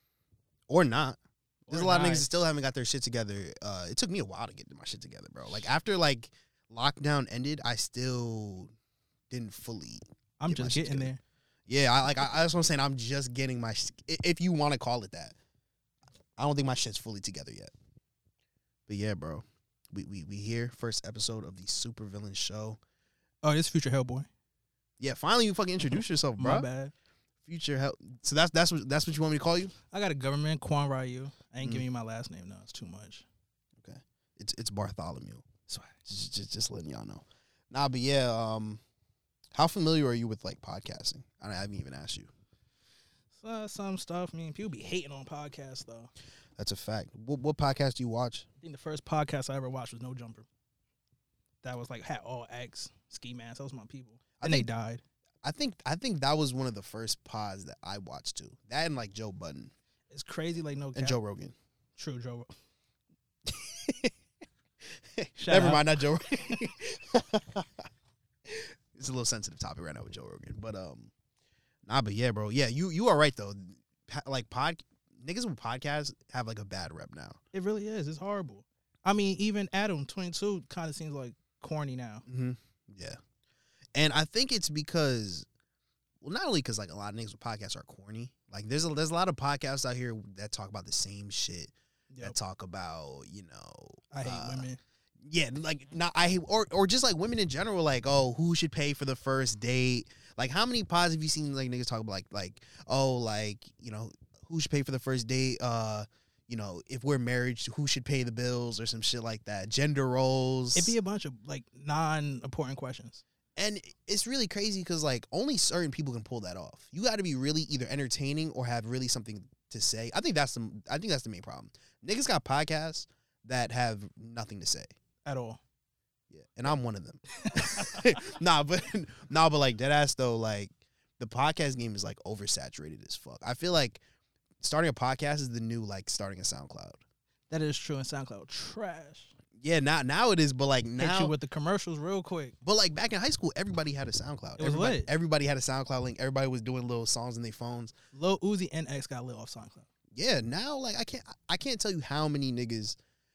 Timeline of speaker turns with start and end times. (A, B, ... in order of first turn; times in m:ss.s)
0:00.7-0:08.7 A
0:01.7-0:02.2 B
0:09.3-0:11.1 A
0:10.4-0:11.2 B
0:11.7-0:15.4 A
0:16.4-0:17.7 A
0:18.9-0:22.8 A
0:23.4-0:24.3 B
0:25.0-0:26.7 A
0:26.4-0:26.9 B
0:27.4-0:29.7 A
0:29.9-0:33.2 B
0:33.8-0:35.5 A
0:35.7-0:36.0 B
0:36.0-0:38.8 A
0:39.5-0:42.3 A
0:43.3-0:46.1 B
0:46.6-0:48.4 A
0:48.6-0:50.5 B
0:51.6-0:55.0 B
0:54.4-0:54.7 A
0:55.4-0:59.7 A
1:00.1-1:01.2 B
1:00.9-1:01.5 A
1:02.0-1:02.5 B
1:03.4-1:04.1 A
1:04.8-1:07.9 A
1:05.4-1:06.5 B
1:08.5-1:11.1 A
1:11.8-1:17.4 A
1:17.5-1:22.2 B
1:22.3-1:23.2 A
1:23.9-1:25.5 A
1:26.2-1:34.7 A
1:34.1-1:34.8 B
1:35.2-1:50.9 A
1:50.7-1:53.2 B
1:53.6-2:04.9 A
2:05.2-2:05.6 B
2:06.3-2:14.0 A
2:07.4-2:08.2 B
2:14.6-2:17.0 A
2:17.5-2:19.3 B
2:19.6-2:21.3 A
2:21.0-2:22.5 B
2:22.6-2:27.9 A
2:24.6-2:25.1 B
2:28.1-2:29.9 B
2:30.1-2:33.0 A